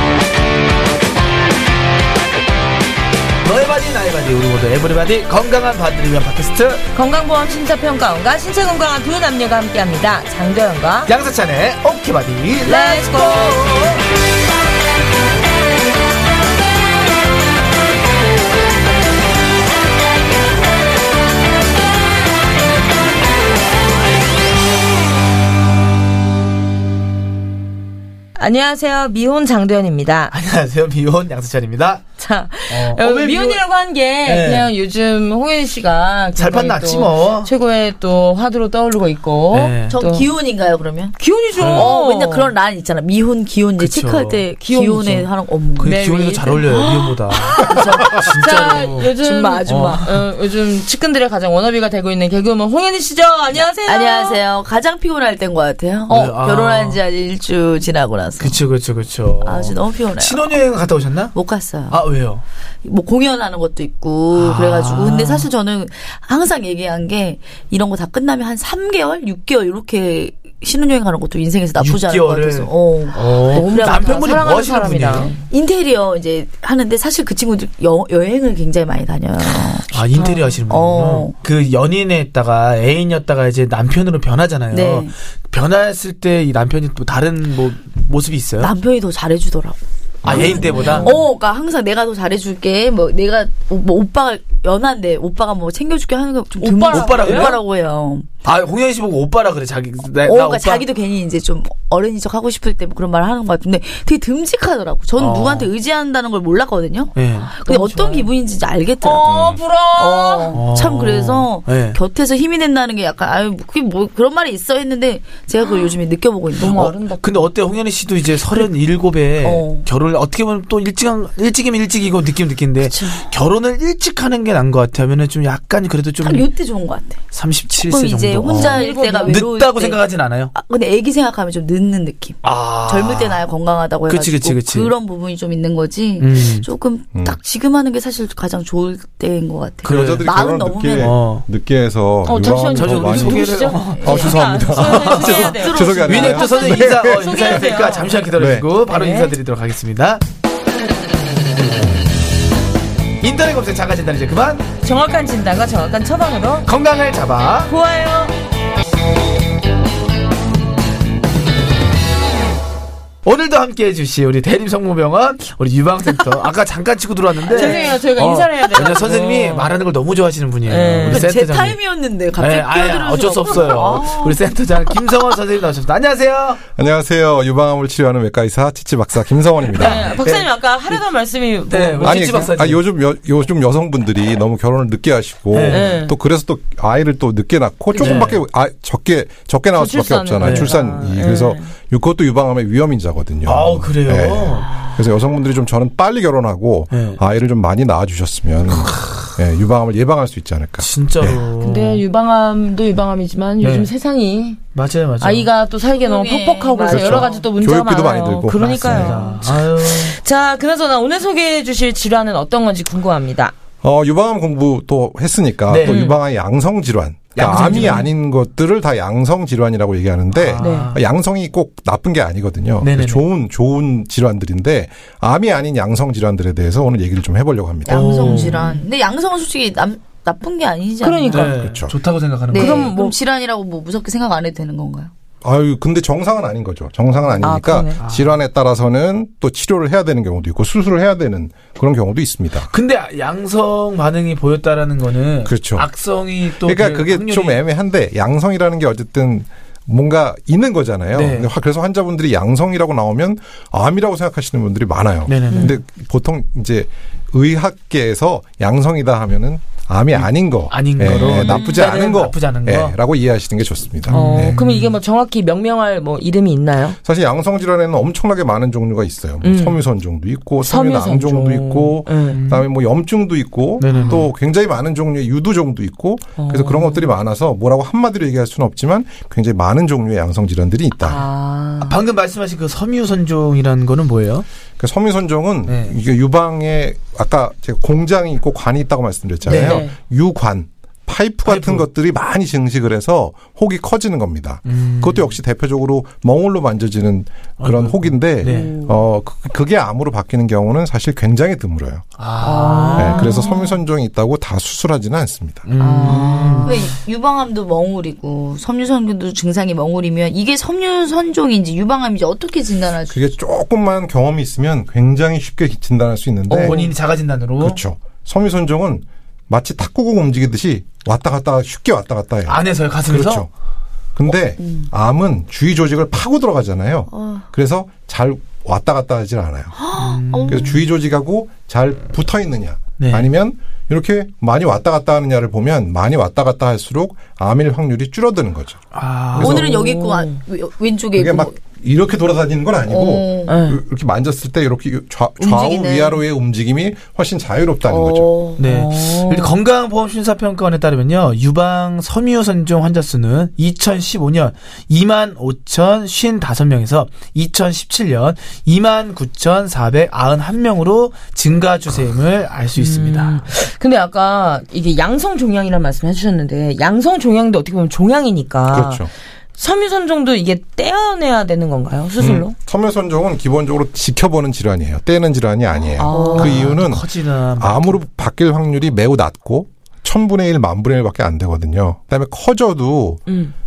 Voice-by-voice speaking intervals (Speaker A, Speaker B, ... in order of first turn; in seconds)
Speaker A: 3.4-6.8, 11.1-14.0, 30.3-32.0, 32.7-33.6, 34.2-34.7, 36.4-37.5, 39.5-39.9, 41.6-41.9, 43.8-44.5, 45.8-49.1, 49.7-50.2, 56.1-57.0, 58.4-61.4, 61.9-62.4, 64.3-65.5, 71.8-75.3, 79.9-88.7, 90.2-91.2, 96.9-97.6, 98.4-100.9, 105.2-105.7, 107.2-107.5, 110.5-112.0, 116.6-126.5, 127.3-130.5, 132.4-133.4, 134.1-134.9, 136.2-136.7, 139.8-140.3, 141.0-141.4, 142.4-145.5, 146.1-150.2, 153.2-154.7, 156.7-157.7, 163.2-171.8, 172.4-176.6, 179.7-181.0, 181.7-182.8, 185.5-186.0, 188.0-188.4, 190.4-190.7, 193.4-195.0, 196.9-197.2, 198.7-199.3, 200.8-202.0, 203.6-203.9, 204.8-205.5, 208.6-210.2, 215.7-216.1, 217.4-218.1, 220.3-221.0, 222.8-223.2, 227.9-228.8, 231.3-232.9, 238.0-238.4, 242.7-247.6, 251.1-251.5, 255.3-255.8, 260.1-263.0, 264.1-265.0, 272.3-272.7, 273.8-274.3, 281.8-284.5, 285.7-285.9, 289.5-289.9, 291.4-291.9, 294.7-295.4, 297.6-298.8, 302.2-303.5, 305.6-306.9, 316.5-317.8, 322.5-323.5, 330.0-330.8, 333.0-333.3, 338.9-339.8, 348.6-363.4, 376.3-378.0
Speaker B: 6.9-11.1, 12.7-13.7, 28.4-30.3, 32.2-40.3, 41.2-42.5, 44.6-45.3, 45.8-54.4, 73.4-75.4, 90.3-91.2, 96.6-97.6, 107.6-108.3, 109.0-110.6, 116.6-117.4, 128.5-129.4, 142.3-148.2, 148.8-149.3, 154.8-156.7, 157.7-158.3, 167.5-169.8, 170.7-171.3, 179.7-182.5, 185.7-186.2, 189.8-191.7, 201.6-204.6, 205.2-213.6, 215.8-216.2, 217.4-218.1, 220.6-220.9, 228.2-228.8, 231.0-231.6, 232.5-233.2, 237.4-238.0, 255.5-255.8, 261.0-262.2, 264.1-267.0, 269.4-269.8, 270.6-272.4, 276.4-277.1, 281.0-282.0, 289.5-289.9, 298.4-299.0, 302.4-303.8, 305.8-306.9, 339.4-340.4, 343.5-343.8, 348.6-349.5, 362.8-369.1, 369.6-372.5, 375.9-376.7, 383.3-383.5
Speaker C: 39.9-41.2, 41.7-46.0, 47.5-48.4, 49.2-50.0, 53.9-58.6, 59.4-60.6, 61.3-62.0, 62.8-74.6, 75.4-81.3, 84.7-85.1, 88.6-98.3, 100.2-109.3, 110.0-116.9, 119.4-119.9, 122.9-123.3, 126.2-127.2, 127.7-130.0, 130.5-141.2, 143.9-146.7, 167.4-168.0, 171.0-174.4, 187.9-188.3, 206.0-207.4, 227.9-231.6, 232.5-235.1, 306.1-313.2, 324.6-324.9, 327.1-327.5, 329.8-330.7, 339.4-341.6, 342.9-343.6, 345.4-346.2, 347.9-348.6, 376.1-376.7
Speaker D: 90.2-90.6, 109.2-109.6, 139.9-147.7, 148.4-148.7, 176.8-180.2, 182.0-201.4, 206.9-209.2, 213.8-228.2, 231.6-232.0, 235.4-242.7, 245.5-245.9, 246.6-264.6, 267.0-281.2, 284.8-302.0, 302.9-305.6, 313.1-316.9, 317.6-323.5, 324.2-329.8, 330.5-338.8, 339.3-339.7, 341.2-348.3, 368.7-369.1, 372.2-383.2